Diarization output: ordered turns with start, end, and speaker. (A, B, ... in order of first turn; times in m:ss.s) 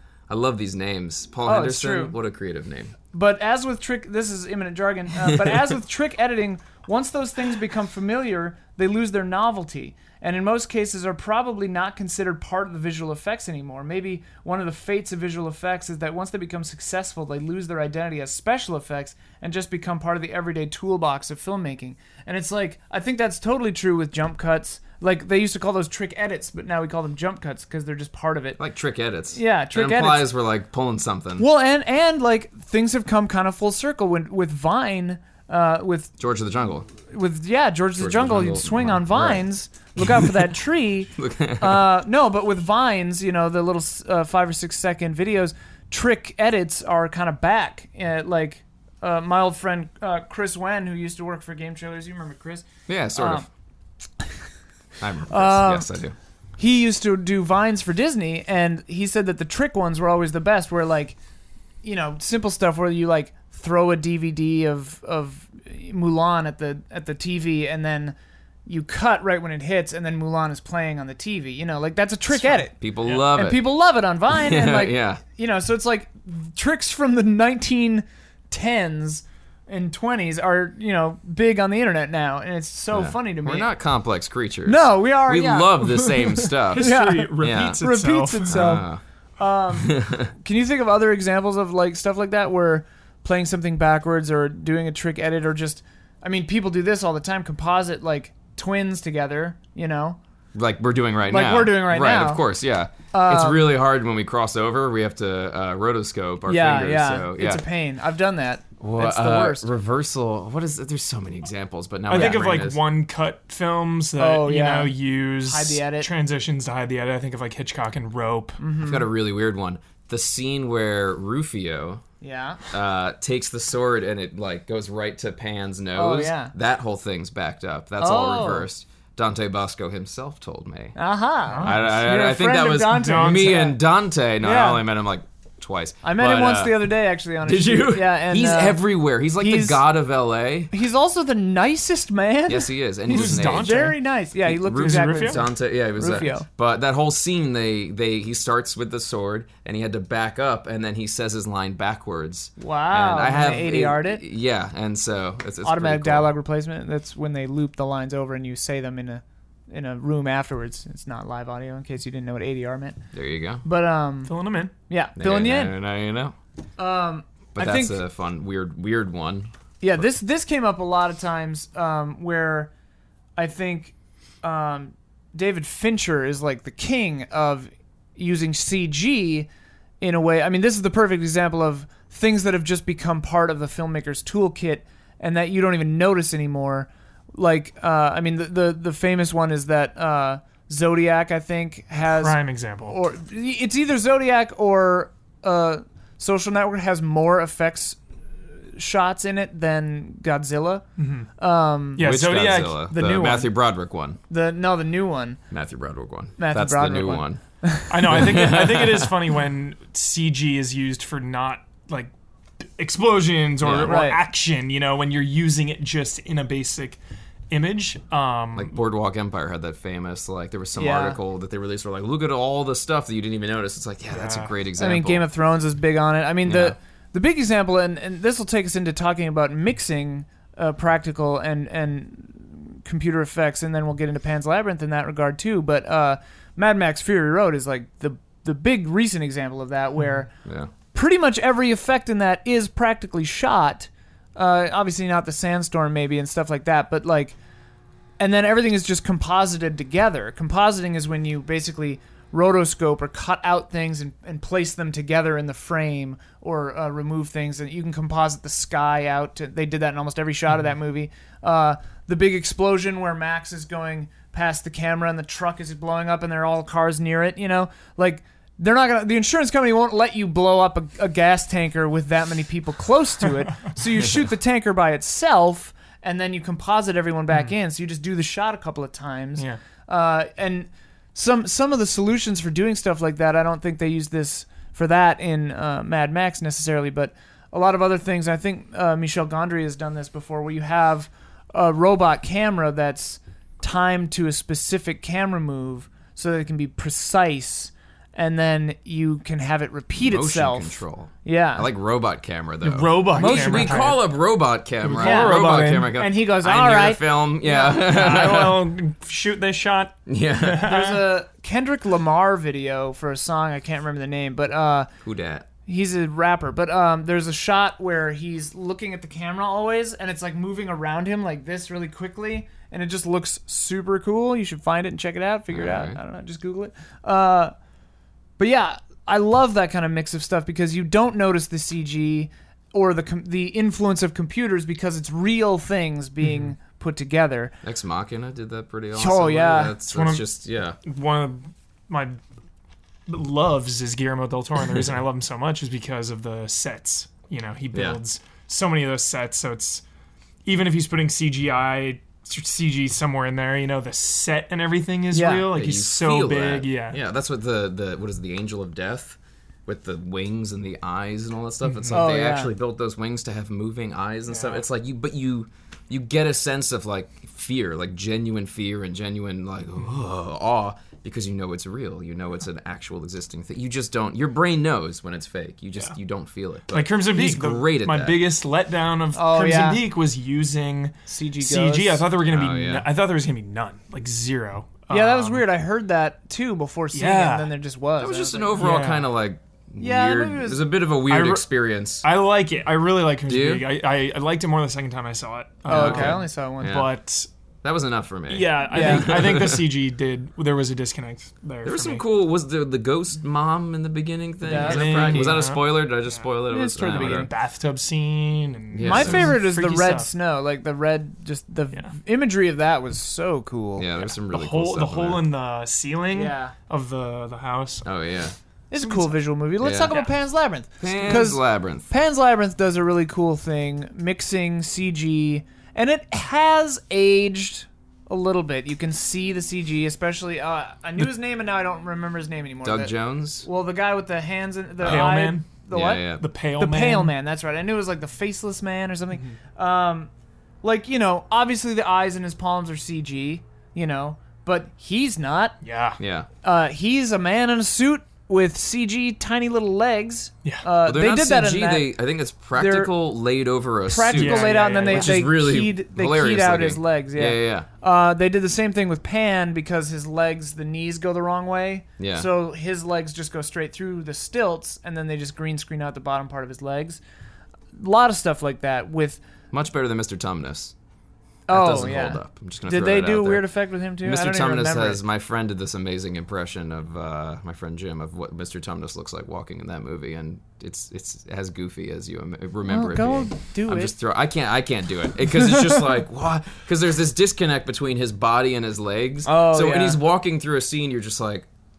0:00.3-0:02.9 A
0:01.4-0:02.1 B
0:03.1-0:28.6 B
0:05.2-0:05.7 A
0:28.6-0:31.4 A
0:29.3-0:30.3 B
0:31.4-0:36.1 B
0:36.2-0:36.9 A
0:37.1-0:53.5 B
0:38.0-0:39.5 A
0:40.0-0:40.4 A
0:41.2-0:41.9 A
0:52.9-0:53.5 A
0:55.0-0:56.1 A
0:55.3-0:55.9 B
0:56.6-1:01.2 B
1:01.8-1:08.1 B
1:08.6-1:23.7 B
1:12.8-1:13.6 A
1:14.3-1:15.2 A
1:22.9-1:27.8 A
1:24.6-1:26.2 B
1:26.4-1:28.6 C
1:26.8-1:28.9 B
1:28.5-1:29.0 A
1:29.4-1:40.2 B
1:29.8-1:30.3 A
1:40.5-1:47.6 A
1:41.3-1:42.4 B
1:43.1-1:43.7 B
1:46.5-1:49.7 B
1:48.8-1:52.8 A
1:52.1-1:58.6 C
1:54.2-1:56.1 B
1:58.6-1:59.1 B
1:58.8-2:02.0 A
2:02.2-2:02.6 B
2:02.7-2:10.9 A
2:05.9-2:06.5 B
2:08.0-2:08.7 B
2:11.0-2:13.8 B
2:11.5-2:11.9 C
2:11.6-2:16.8 A
2:12.9-2:13.6 C
2:14.4-2:14.8 B
2:16.0-2:18.8 B
2:17.4-2:20.7 A
2:19.4-2:19.8 B
2:20.7-2:26.5 B
2:22.5-2:23.9 A
2:23.1-2:24.0 C
2:24.4-2:36.3 A
2:24.8-2:25.4 C
2:32.6-2:34.2 B
2:35.6-2:43.0 B
2:43.1-2:43.6 A
2:43.6-2:44.3 B
2:44.2-2:44.7 C
2:44.9-2:45.8 B
2:45.2-2:46.3 A
2:46.8-2:48.0 B
2:47.5-2:49.5 A
2:49.8-2:52.7 B
2:53.4-2:59.5 B
3:00.0-3:18.0 B
3:12.0-3:13.0 C
3:18.7-3:20.8 B
3:21.0-3:21.3 C
3:21.4-3:22.1 B
3:22.0-3:22.8 C
3:22.0-3:24.2 A
3:22.8-3:23.5 B
3:24.3-3:25.4 B
3:25.5-3:27.4 A
3:26.4-3:28.2 B
3:27.9-3:32.1 C
3:28.0-3:29.1 A
3:32.6-3:37.0 C
3:33.6-3:34.0 A
3:33.8-3:34.2 B
3:37.5-3:38.7 C
3:38.5-3:45.3 A
3:40.8-3:41.2 B
3:44.1-3:44.5 C
3:44.8-4:00.3 B
3:46.4-3:46.8 A
4:00.4-4:00.7 A
4:00.9-4:07.4 B
4:08.2-5:01.7 B
4:59.9-5:08.7 A
5:02.6-5:04.0 C
5:03.1-5:04.0 B
5:04.8-5:06.0 C
5:05.0-5:07.9 B
5:07.6-5:11.1 C
5:10.1-5:10.7 A
5:10.6-5:14.9 B
5:15.0-5:15.5 A
5:15.6-5:27.5 B
5:25.5-5:26.0 A
5:28.4-5:37.5 B
5:37.6-5:40.8 A
5:38.9-5:39.8 B
5:39.9-5:40.2 C
5:40.8-5:42.2 C
5:43.1-5:49.8 C
5:47.7-5:48.0 A
5:50.4-5:57.0 C
5:55.1-5:55.5 B
5:55.5-6:18.2 A
6:01.6-6:02.0 C
6:01.9-6:02.5 B
6:04.3-6:04.6 C
6:16.7-6:25.4 C
6:19.1-6:19.8 B
6:21.1-6:22.0 B
6:22.2-6:22.8 A
6:24.9-6:28.6 B
6:26.9-6:27.5 C
6:28.0-6:32.0 A
6:28.6-6:29.1 C
6:29.8-6:30.6 B
6:31.1-6:31.4 C
6:32.0-6:37.3 C
6:33.3-6:33.6 A
6:35.6-6:36.8 B
6:35.7-6:36.9 A
6:37.6-6:39.7 A
6:38.3-6:42.0 C
6:38.7-6:39.1 B
6:41.6-6:47.3 A
6:44.4-6:45.3 B
6:44.5-6:45.8 C
6:46.5-6:47.3 B
6:46.8-6:50.1 C
6:48.7-6:49.4 A
6:48.8-6:53.9 B
6:53.8-6:55.2 A
6:54.3-6:57.9 C
6:56.1-6:56.5 B
6:57.8-6:58.3 A
6:58.7-7:20.1 B
6:58.8-6:59.2 C
6:59.6-6:59.9 A
7:00.8-7:01.9 A
7:12.6-7:13.4 A
7:14.8-7:15.1 A
7:14.8-7:15.6 C
7:15.7-7:16.2 A
7:16.2-7:17.1 C
7:20.6-7:25.6 B
7:25.6-7:26.0 C
7:26.0-7:26.3 A
7:26.4-7:31.9 B
7:30.8-7:37.7 A
7:32.5-7:32.9 B
7:33.8-7:47.0 B
7:34.1-7:35.2 C
7:42.0-7:42.3 A
7:47.7-7:49.2 B
7:49.5-7:50.7 A
7:51.5-7:55.0 B
7:51.5-7:53.5 A
7:54.0-8:11.5 A
8:02.7-8:03.9 B
8:09.2-8:10.0 B